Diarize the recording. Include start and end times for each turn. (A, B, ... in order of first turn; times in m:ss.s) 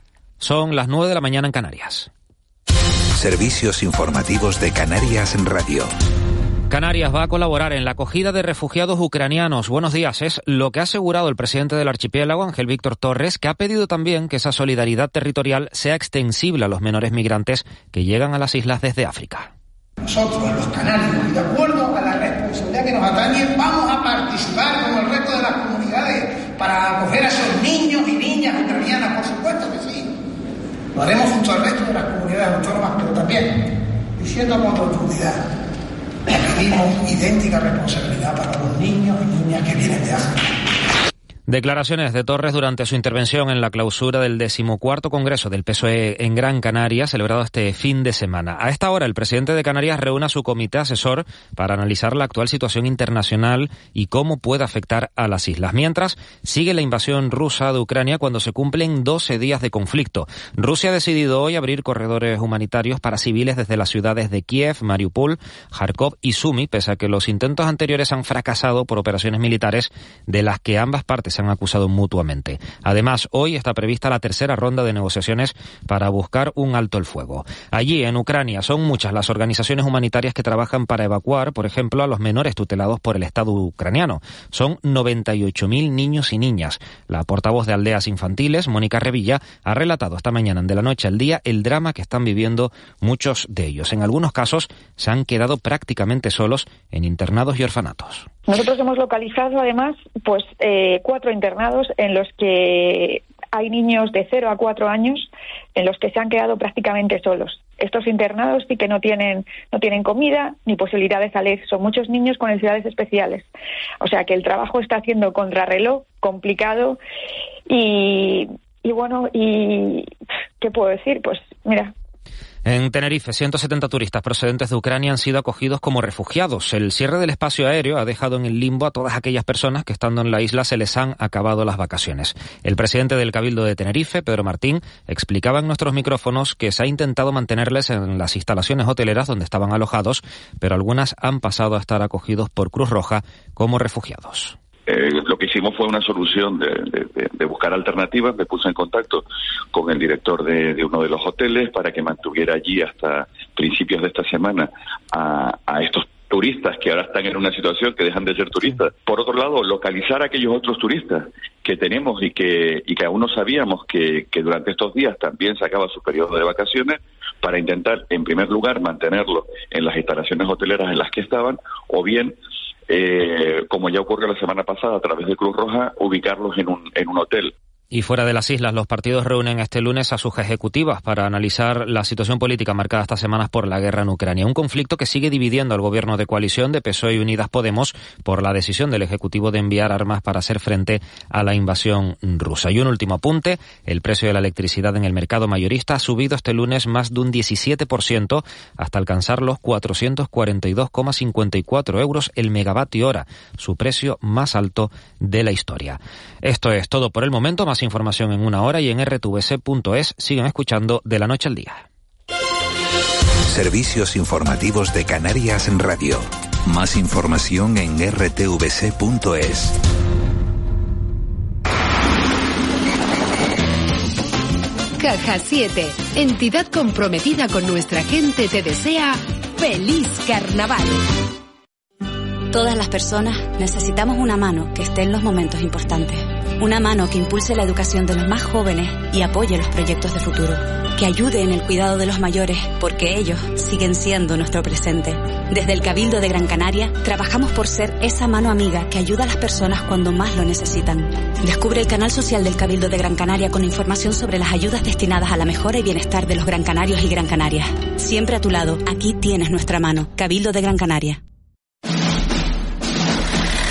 0:00.4-0:02.1 A
0:03.2-0:05.9 B
0:06.7-0:19.5 A
0:20.0-0:30.1 C
0:31.0-0:35.4 C
0:36.3-0:40.4 C
0:41.5-1:38.3 A
1:38.5-1:53.5 D
1:54.0-1:57.0 D
1:57.7-2:01.9 D
2:02.7-2:24.6 A
2:24.9-2:52.4 E
2:52.9-2:57.6 E
2:57.9-3:31.8 A
3:33.4-3:39.8 B
3:45.0-3:51.0 F
3:52.5-4:21.2 G